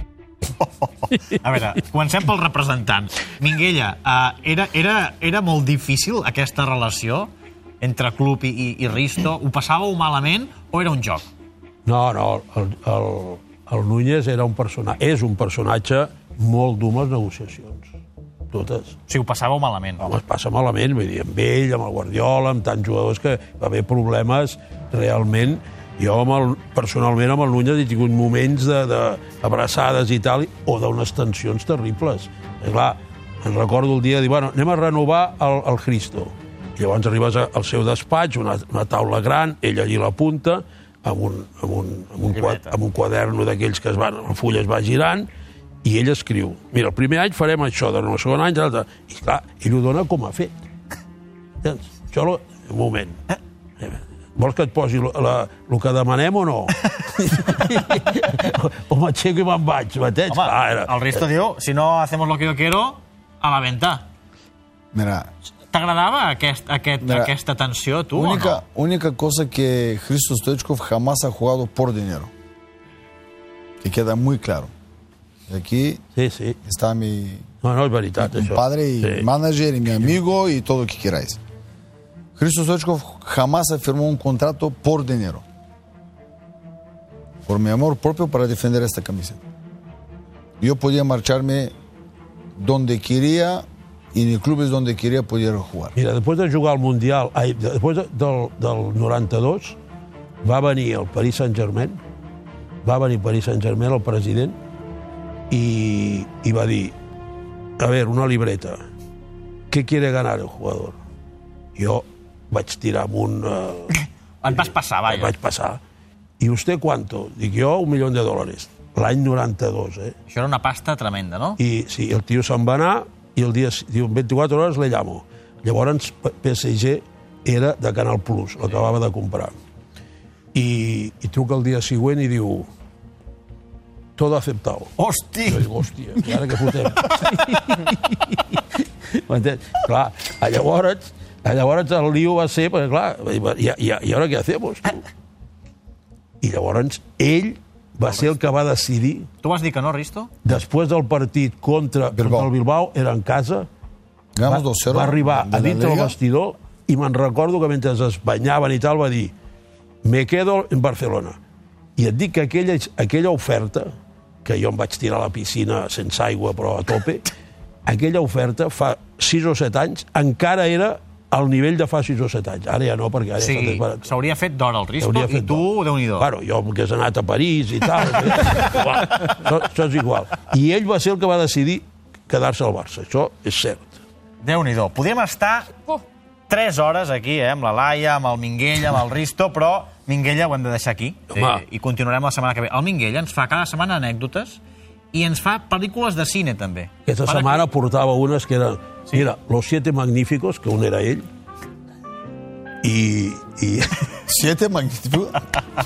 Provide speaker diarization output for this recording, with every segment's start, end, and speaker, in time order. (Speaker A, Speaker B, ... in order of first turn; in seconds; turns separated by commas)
Speaker A: 0.6-11.3, Speaker B: 11.9-17.9, Speaker B: 18.5-19.0, Speaker A: 19.1-20.1, Speaker B: 20.0-45.3, Speaker A: 42.3-42.7, Speaker B: 45.8-50.5, Speaker B: 51.6-53.2, Speaker B: 53.8-61.3, Speaker A: 60.3-64.0, Speaker C: 64.9-65.3, Speaker A: 65.7-68.6, Speaker C: 67.0-67.3, Speaker C: 68.1-72.3, Speaker C: 73.8-74.7, Speaker C: 75.5-76.0, Speaker B: 76.2-76.6, Speaker C: 76.6-77.5, Speaker B: 77.6-79.3, Speaker C: 78.2-81.4, Speaker C: 82.4-85.4, Speaker C: 87.5-89.4, Speaker C: 90.6-91.7, Speaker C: 92.6-95.9, Speaker B: 96.0-99.8, Speaker B: 100.4-102.0, Speaker B: 102.8-104.6, Speaker B: 105.5-106.9, Speaker B: 107.8-108.8, Speaker B: 109.7-111.0, Speaker B: 111.8-114.0, Speaker A: 114.4-115.3, Speaker B: 114.5-115.8, Speaker B: 116.4-120.1, Speaker A: 120.3-121.6, Speaker B: 121.6-129.6, Speaker B: 130.5-132.7, Speaker B: 134.2-134.9, Speaker A: 135.0-135.7, Speaker B: 135.5-138.4, Speaker A: 137.0-137.9, Speaker B: 139.2-145.0, Speaker B: 146.4-149.3, Speaker A: 149.4-150.3, Speaker B: 150.4-153.7, Speaker C: 152.1-152.5, Speaker C: 154.4-156.2, Speaker B: 154.4-159.3, Speaker B: 160.0-161.4, Speaker B: 162.0-163.9, Speaker B: 164.4-167.2, Speaker B: 167.9-174.1, Speaker A: 173.4-176.3, Speaker B: 175.0-175.7, Speaker B: 176.2-183.9, Speaker A: 178.4-179.3, Speaker A: 184.4-185.8, Speaker A: 186.5-194.6, Speaker B: 191.3-191.6, Speaker A: 195.1-197.7, Speaker B: 197.1-201.3, Speaker B: 202.8-204.2, Speaker C: 204.3-205.4